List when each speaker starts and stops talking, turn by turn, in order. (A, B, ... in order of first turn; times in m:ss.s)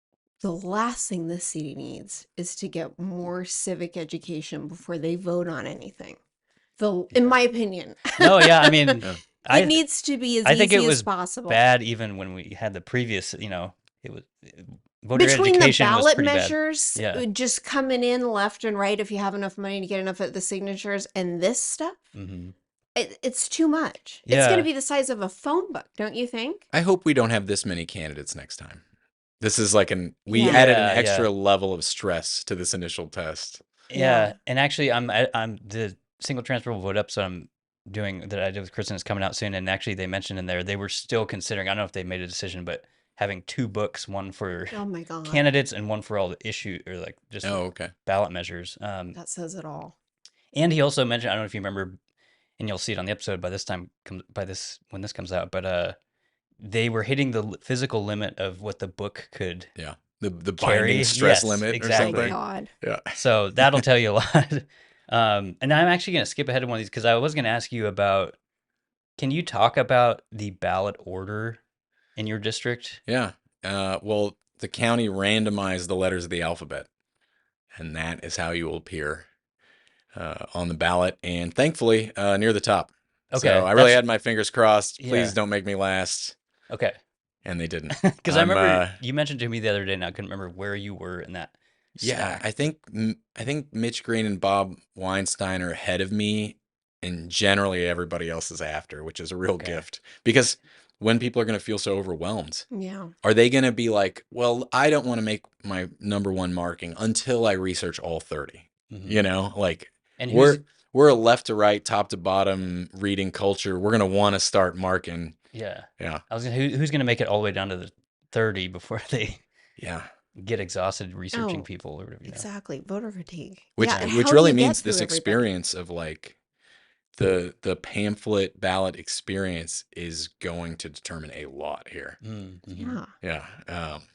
0:00.4-0:06.2 A
0:06.8-0:11.6 A
0:08.2-0:09.8 B
0:10.4-0:17.2 B
0:15.1-0:22.0 A
0:22.1-0:22.5 B
0:22.9-0:26.6 A
0:24.2-0:24.7 B
0:26.7-0:28.8 C
0:29.4-0:33.6 C
0:30.3-0:30.7 A
0:30.3-0:31.3 B
0:33.9-0:49.2 B
0:33.9-0:34.3 A
0:44.7-0:45.4 A
0:47.4-0:47.9 C
0:49.1-0:49.9 A
0:50.5-0:52.0 B
0:52.6-0:56.0 B
0:56.6-0:59.7 B
0:59.8-1:03.1 C
1:00.6-1:02.4 B
1:01.9-1:02.7 A
1:03.1-1:08.4 B
1:09.2-1:11.6 B
1:12.2-1:13.0 B
1:13.1-1:16.9 C
1:17.7-1:19.2 C
1:20.1-1:26.3 C
1:23.3-1:24.0 B
1:25.0-1:25.4 B
1:26.7-1:27.0 B
1:27.4-1:29.0 C
1:28.0-1:32.4 B
1:32.0-1:42.7 C
1:39.6-1:39.8 B
1:42.7-1:43.1 A
1:43.2-1:55.4 C
1:48.9-1:49.2 B
1:50.2-1:50.6 B
1:55.5-1:59.4 B
1:59.8-2:00.1 C
2:00.4-2:02.4 B
2:01.3-2:01.7 A
2:02.2-2:05.5 A
2:03.8-2:06.4 C
2:03.9-2:04.1 B
2:07.2-2:12.2 C
2:12.2-2:13.0 B
2:12.8-2:13.1 A
2:13.2-2:14.0 C